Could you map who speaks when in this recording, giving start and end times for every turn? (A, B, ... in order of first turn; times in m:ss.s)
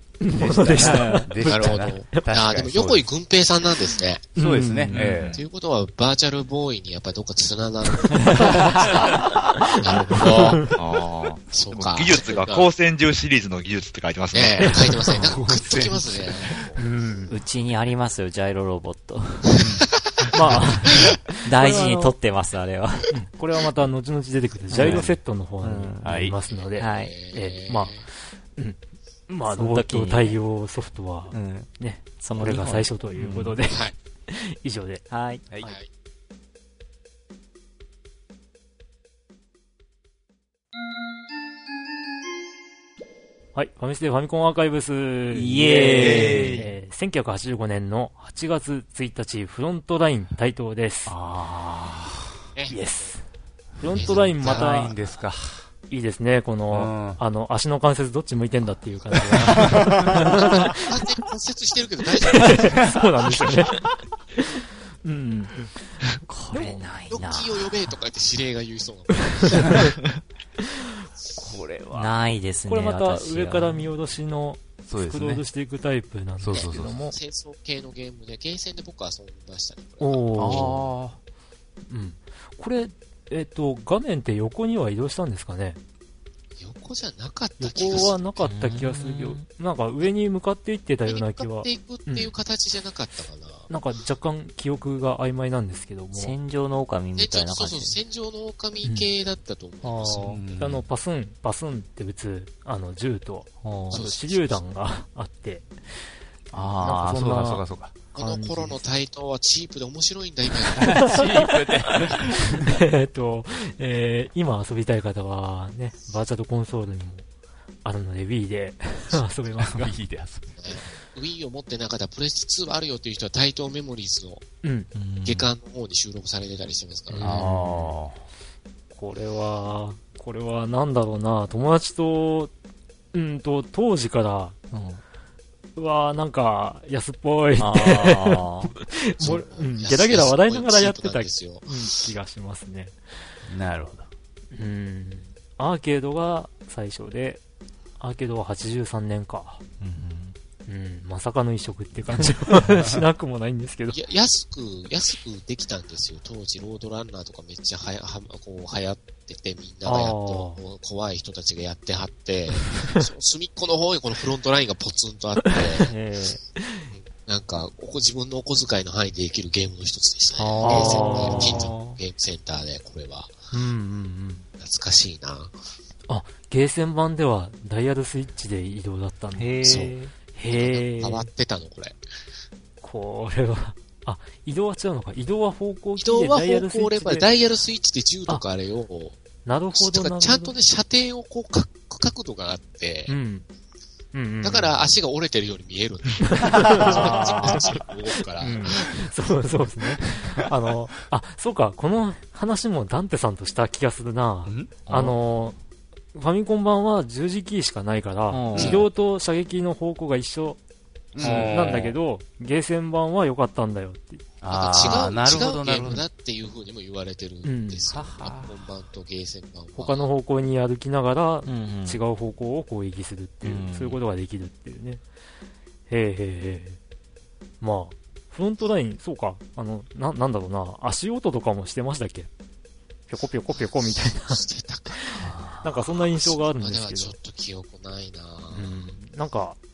0:00.2-0:02.2 A
0:00.3-0:03.1 B
0:00.8-0:01.3 C
0:01.4-0:04.3 D
0:04.3-0:05.4 B
0:04.4-0:05.1 A
0:04.9-0:05.5 E
0:05.3-0:09.1 D
0:08.4-0:08.9 A
0:08.6-0:08.9 B
0:09.7-0:10.8 D
0:09.8-0:10.8 A
0:10.7-0:14.8 E
0:11.5-0:12.7 D
0:14.3-0:16.8 D
0:14.8-0:15.2 A
0:15.2-0:16.7 B
0:16.8-0:17.4 A
0:17.3-0:19.6 C
0:19.5-0:20.3 D
0:20.3-0:22.2 A
0:21.4-0:23.1 C
0:23.1-0:35.1 A
0:24.7-0:25.1 C
0:24.7-0:25.2 B
0:25.6-0:26.1 C
0:26.0-0:26.4 B
0:26.5-0:28.0 D
0:26.8-0:27.1 C
0:29.5-0:30.4 C
0:31.3-0:33.6 C
0:33.7-0:33.9 D
0:35.1-0:35.4 C
0:35.6-0:35.9 D
0:43.5-0:51.1 A
0:45.3-0:46.6 C
0:45.7-0:46.7 B
0:51.0-0:52.4 B
0:52.5-0:53.1 D
0:52.7-0:53.2 A
0:53.8-0:54.9 A
0:53.9-0:54.9 D
0:53.9-0:55.7 B
0:55.9-1:01.0 A
0:56.7-0:57.2 B
0:59.4-1:00.1 B
1:00.4-1:02.8 D
1:02.3-1:03.8 A
1:02.5-1:02.8 B
1:03.6-1:03.9 B
1:04.4-1:06.8 A
1:06.2-1:07.7 C
1:07.1-1:09.9 D
1:09.6-1:09.9 A
1:11.4-1:12.3 B
1:11.9-1:13.9 C
1:12.7-1:17.2 A
1:14.8-1:15.4 B
1:16.4-1:17.0 B
1:16.5-1:20.3 D
1:20.0-1:20.9 A
1:20.3-1:21.2 B
1:21.9-1:25.8 A
1:26.6-1:28.2 D
1:27.6-1:32.3 A
1:28.4-1:29.4 C
1:31.0-1:33.7 D
1:33.7-1:36.3 A
1:36.1-1:38.0 C
1:37.2-1:40.5 D
1:38.8-1:39.1 A
1:39.8-1:45.7 A
1:40.3-1:40.8 B
1:43.6-1:44.0 C
1:43.9-1:44.6 D
1:46.5-1:48.8 A
1:46.5-1:47.9 B
1:48.1-1:51.2 D
1:50.8-1:52.8 B
1:50.8-1:57.2 A
1:57.8-1:59.9 A
1:59.6-2:00.5 B
2:00.5-2:04.4 D
2:04.6-2:04.9 A
2:04.9-2:05.5 C
2:05.2-2:07.2 D
2:07.1-2:08.0 A
2:07.2-2:08.2 B
2:08.9-2:12.5 A
2:13.1-2:14.6 A
2:14.7-2:15.0 C
2:15.8-2:23.0 A
2:17.6-2:18.7 C
2:19.2-2:21.7 D
2:23.5-2:24.1 B
2:24.5-2:27.4 A
2:28.0-2:29.6 A
2:29.8-2:30.3 C
2:30.7-2:34.0 A
2:33.9-2:45.9 D
2:39.8-2:40.6 A
2:42.7-2:43.0 A
2:45.8-2:46.4 C
2:46.6-2:46.9 A
2:46.9-2:53.4 D
2:50.3-2:52.0 C
2:50.6-2:51.7 A
2:53.5-2:54.5 A
2:54.6-2:55.5 D
2:56.1-3:01.3 A
2:59.4-3:00.1 C
2:59.6-3:00.0 D
3:00.5-3:02.0 D
3:02.8-3:07.3 A
3:06.0-3:09.2 D
3:09.4-3:10.5 A
3:09.7-3:13.2 D
3:13.1-3:13.4 A
3:14.1-3:14.8 A
3:14.4-3:19.2 D
3:16.3-3:25.6 A
3:24.4-3:25.2 B
3:26.1-3:30.6 A
3:28.3-3:28.8 C
3:28.5-3:28.9 B
3:31.1-3:32.0 B
3:31.2-3:34.2 A
3:31.2-3:31.8 C
3:34.4-3:36.0 B
3:34.5-3:40.1 D
3:37.4-3:37.8 A
3:37.9-3:38.5 C
3:39.7-3:45.0 A
3:41.4-3:42.0 C
3:43.4-3:44.0 C
3:45.9-3:46.8 A
3:47.6-3:52.3 A
3:53.1-3:57.1 A
3:54.3-3:58.9 D
3:55.2-3:55.6 C
3:58.5-3:59.6 A